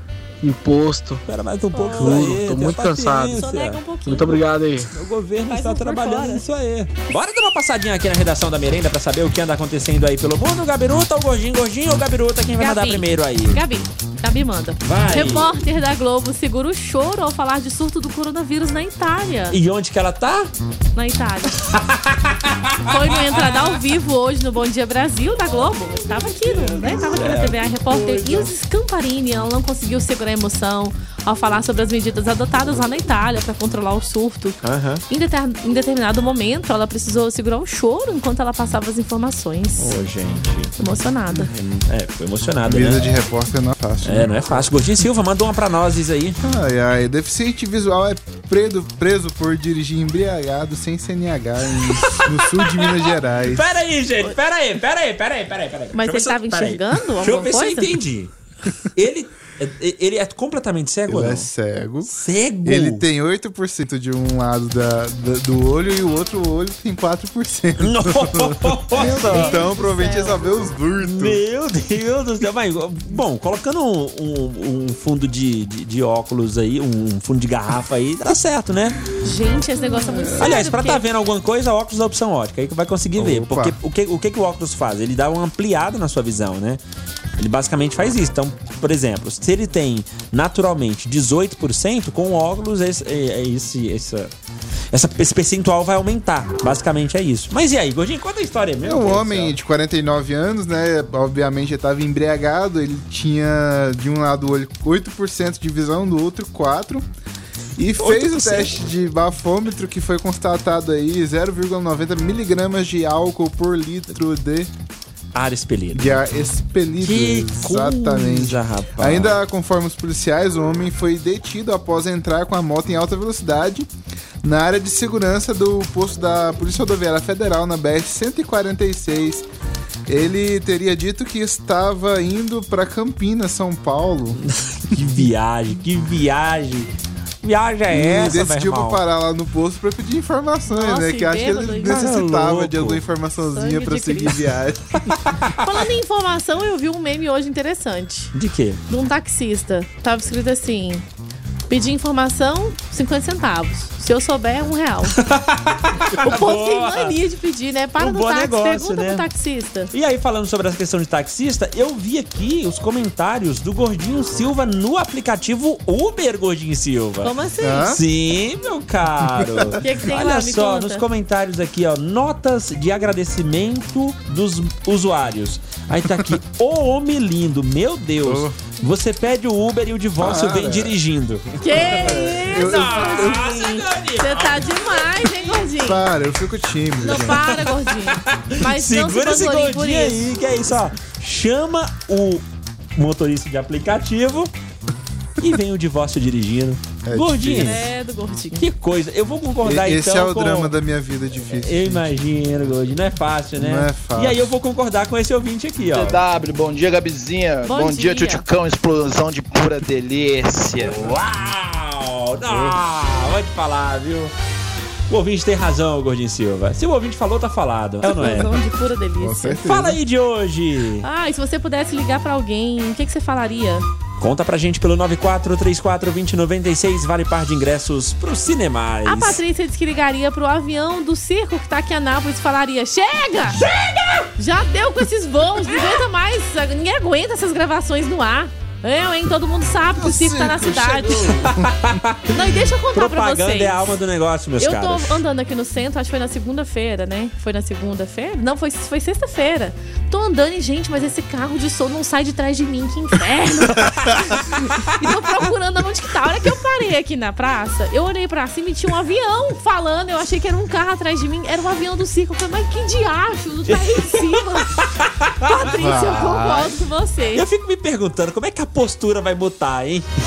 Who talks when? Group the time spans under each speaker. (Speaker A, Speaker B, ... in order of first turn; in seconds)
Speaker A: 0.4-1.2, 1.9-3.4, 4.1-4.9
Speaker B: 1.2-13.6, 14.8-15.5, 19.5-20.5, 21.6-23.8, 26.4-28.5, 34.6-35.0, 39.8-40.7, 41.5-43.0, 44.0-46.4, 51.8-58.3, 58.9-61.5, 62.0-63.1, 67.8-69.7, 71.0-79.0, 80.4-86.8, 87.4-94.3, 94.9-99.5, 108.0-108.8, 115.3-116.2, 117.0-119.4, 134.8-139.0, 141.8-143.0, 145.2-145.5, 148.3-148.8, 155.1-157.2, 158.0-159.2, 159.9-185.7, 187.1-192.4, 192.9-194.5, 195.4-197.8, 198.5-200.7, 201.5-206.2, 210.8-214.3, 215.1-218.6, 219.6-221.1, 224.2-229.4, 233.5-234.3, 241.4-242.3, 242.9-245.1, 264.0-266.3, 267.3-270.1
Speaker C: 1.7-2.3, 3.3-4.4, 5.5-6.4, 12.6-19.6, 20.9-21.7, 22.9-34.6, 35.1-40.0, 40.8-41.5, 55.9-57.9, 68.9-70.4, 79.2-81.0, 140.7-142.0, 143.4-144.4, 145.6-148.3, 148.9-151.0, 151.7-155.2, 156.2-159.9, 167.2-167.9, 169.8-171.0, 181.6-186.0, 187.0-190.2, 197.5-198.7, 207.7-208.4, 218.0-219.6, 221.0-223.8, 229.0-233.6, 234.4-241.4, 242.3-243.9, 244.6-264.9, 265.4-267.4
Speaker D: 42.6-44.6, 46.4-53.6, 61.1-62.1, 62.6-71.4, 80.1-80.5, 83.2-83.8, 98.8-107.0, 107.8-114.7, 115.9-123.9, 124.4-129.4, 130.1-134.4, 137.9-144.8, 167.6-168.0, 169.3-169.8, 178.2-178.5, 180.2-180.9, 181.7-183.4, 185.8-187.7, 197.1-197.8, 199.6-202.0, 203.6-204.5, 212.4-212.8, 219.2-220.0, 239.9-242.4, 265.7-266.8
Speaker E: 205.9-211.1